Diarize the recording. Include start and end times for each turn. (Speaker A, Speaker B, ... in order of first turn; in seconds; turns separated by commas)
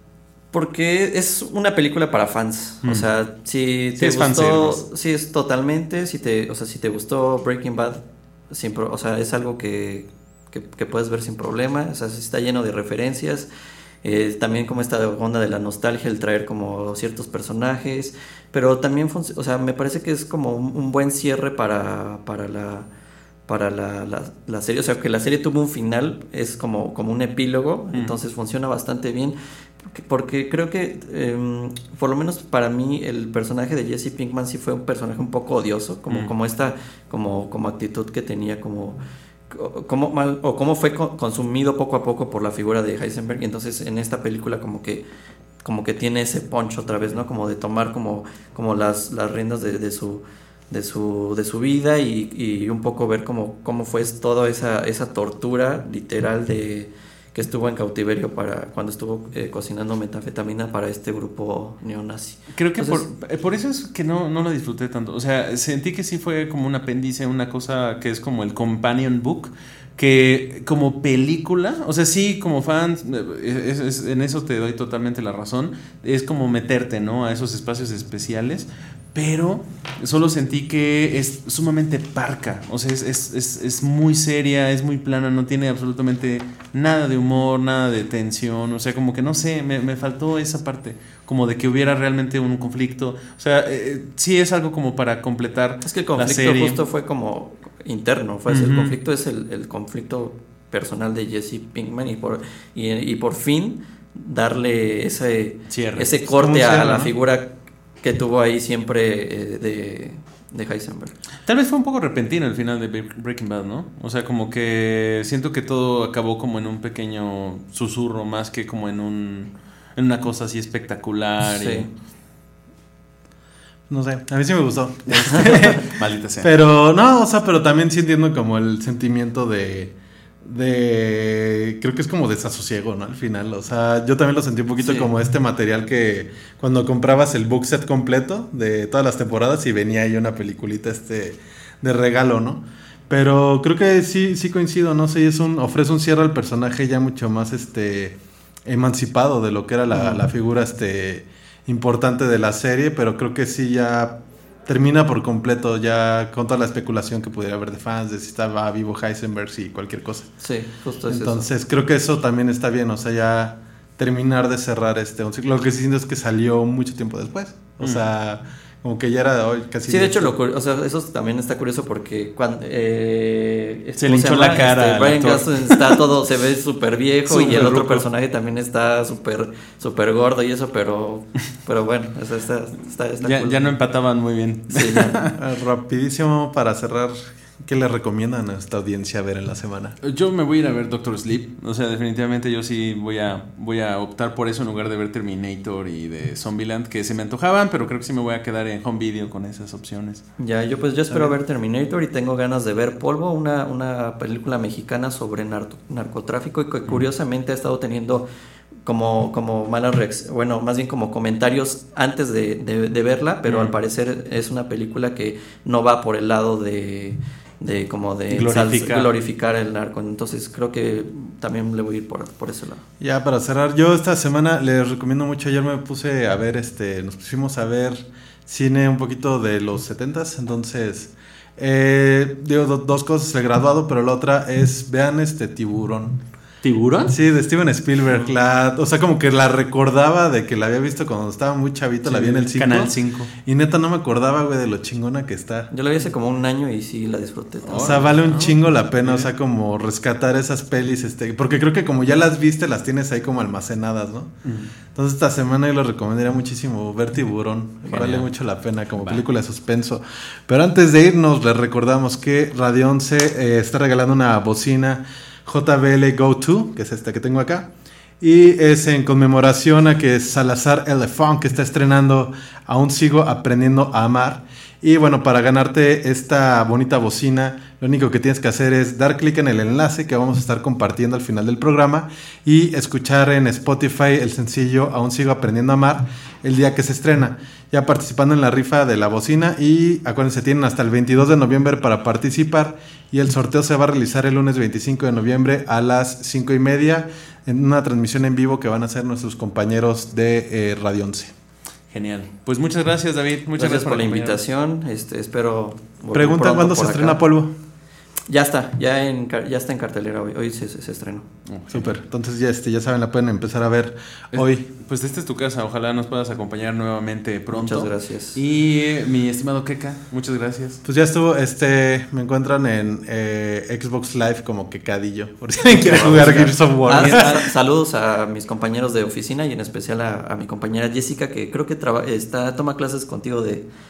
Speaker A: 0.5-13.5, Speaker B: 4.0-4.8, Speaker A: 14.0-22.9, Speaker A: 23.5-39.0, Speaker A: 39.5-45.0, Speaker A: 45.6-63.0, Speaker B: 62.5-96.8, Speaker A: 95.8-107.5, Speaker B: 98.5-99.0, Speaker B: 105.7-106.1, Speaker C: 106.3-107.1, Speaker A: 108.0-111.1, Speaker B: 111.5-121.9, Speaker A: 121.5-121.9, Speaker C: 123.9-125.8, Speaker B: 125.1-126.5, Speaker C: 126.4-154.1, Speaker A: 134.8-135.1, Speaker C: 154.7-160.3, Speaker A: 160.4-161.5, Speaker C: 161.1-170.3, Speaker A: 169.9-183.7, Speaker B: 174.0-176.0, Speaker B: 177.3-178.1, Speaker B: 183.2-185.3, Speaker A: 184.7-185.2, Speaker C: 185.4-190.0, Speaker B: 190.0-200.3, Speaker A: 200.4-208.3, Speaker A: 208.8-222.8, Speaker B: 213.5-213.7, Speaker B: 218.3-219.1, Speaker C: 223.0-236.2, Speaker B: 236.6-237.2, Speaker C: 237.0-245.7, Speaker B: 242.1-243.3, Speaker A: 245.7-248.2, Speaker B: 247.7-249.3, Speaker C: 247.7-254.3, Speaker B: 254.4-254.7, Speaker C: 254.9-267.7, Speaker B: 257.9-258.3, Speaker C: 268.2-301.3, Speaker B: 301.9-304.4, Speaker A: 303.6-307.2, Speaker C: 306.1-307.5, Speaker A: 308.3-311.3, Speaker B: 311.5-311.9, Speaker C: 311.7-314.6, Speaker B: 314.3-320.8, Speaker A: 317.5-318.4, Speaker C: 320.8-327.4, Speaker B: 325.7-327.4, Speaker A: 326.1-333.7